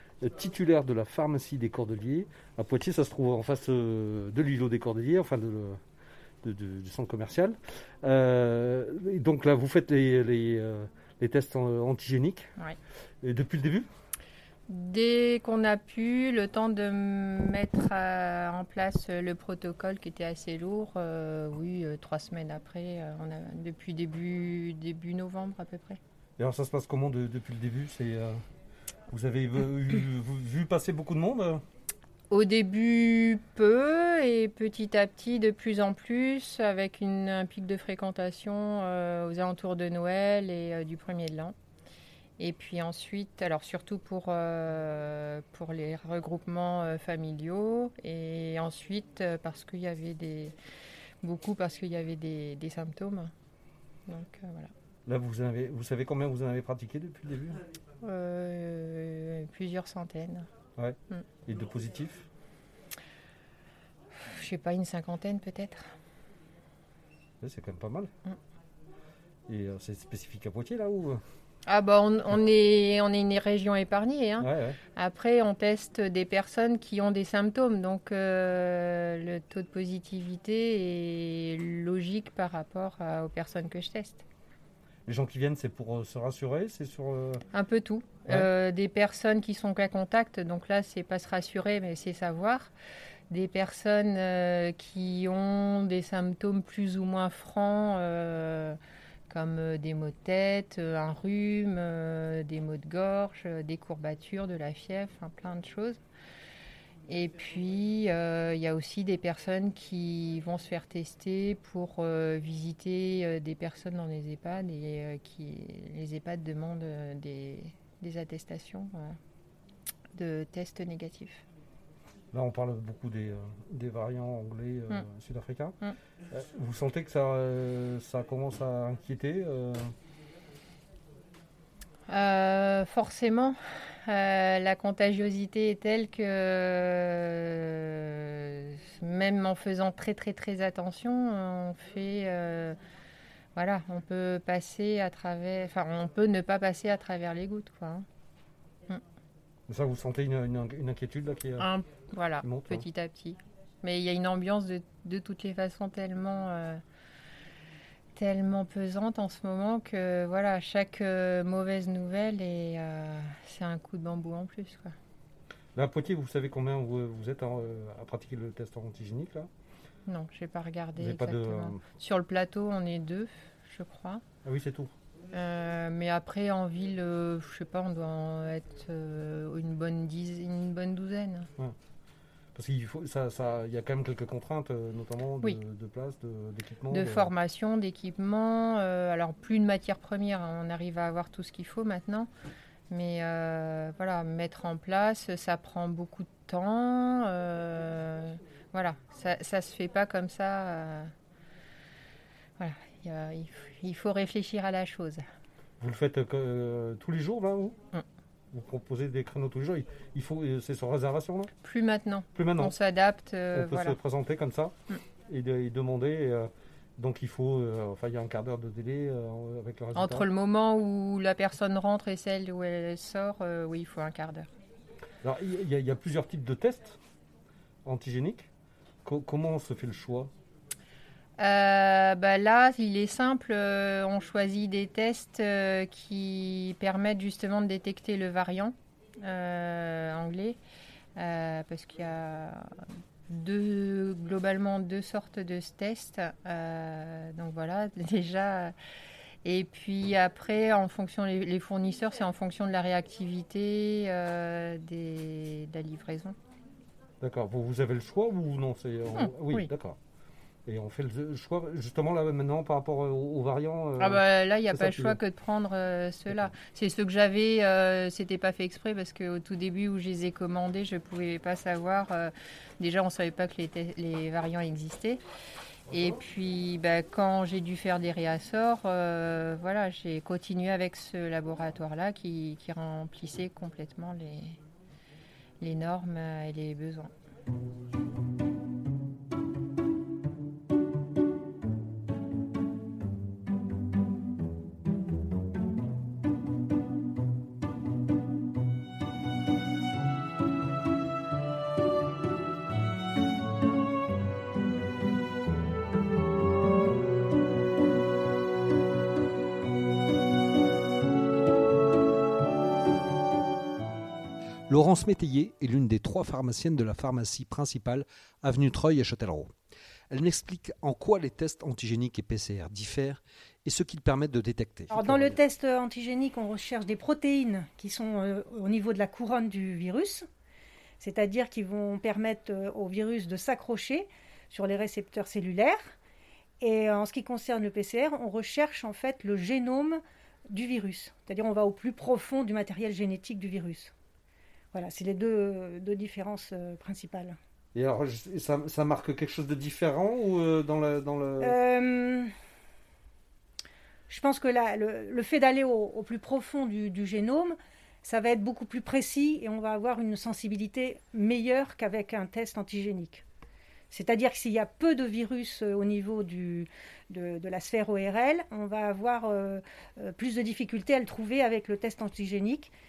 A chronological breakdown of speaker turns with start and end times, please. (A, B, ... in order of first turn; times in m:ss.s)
0:00.2-0:05.8 A
0:06.4-0:12.5 A
0:13.2-0:13.9 A
0:14.7-0:26.0 B
0:26.4-0:28.4 A
0:29.1-0:31.6 A
0:32.3-0:41.5 B
0:42.4-0:50.5 B
0:51.2-0:53.3 B
0:54.1-0:54.7 B
0:55.0-0:57.6 A
0:58.0-1:00.5 B
1:00.8-1:02.2 A
1:04.2-1:05.9 B
1:07.4-1:08.1 A
1:09.5-1:11.2 A
1:11.7-1:24.2 B
1:14.4-1:14.8 A
1:25.1-1:27.4 A
1:27.5-1:32.7 B
1:33.3-1:38.8 B
1:39.3-1:46.0 B
1:47.1-1:59.2 B
2:00.1-2:01.4 B
2:02.3-2:05.8 A
2:06.3-2:09.9 A
2:12.1-2:22.8 B
2:23.5-2:28.0 B
2:29.7-2:31.7 A
2:31.6-2:36.8 B
2:32.4-2:32.8 A
2:38.2-2:44.9 B
2:45.7-2:49.5 A
2:50.0-2:54.2 B
2:51.0-2:51.8 A
2:54.4-2:54.9 A
2:55.3-3:01.5 B
3:02.5-3:07.3 A
3:06.9-3:12.3 B
3:12.9-3:21.1 B
3:22.6-3:25.2 B
3:25.8-3:27.8 A
3:28.5-3:31.5 A
3:31.6-3:34.0 B
3:32.3-3:32.7 A
3:33.5-3:40.3 A
3:39.9-3:44.5 B
3:45.2-3:47.0 A
3:47.8-3:48.5 A
3:49.0-3:50.3 A
3:51.4-4:00.6 B
4:01.2-4:08.7 B
4:09.4-4:16.4 B
4:17.2-4:20.0 A
4:19.1-4:19.7 B
4:20.6-4:25.2 A
4:24.0-4:35.2 B
4:35.9-4:36.2 A
4:35.9-4:44.6 B
4:45.6-4:47.1 B
5:14.7-5:19.5 A
5:20.1-5:25.4 A
5:24.9-5:30.3 C
5:31.0-5:35.9 C
5:36.6-5:43.9 C
5:44.7-5:47.4 C
5:47.7-5:51.6 A
5:51.4-5:52.3 C
5:54.1-6:03.2 C
6:03.9-6:12.7 C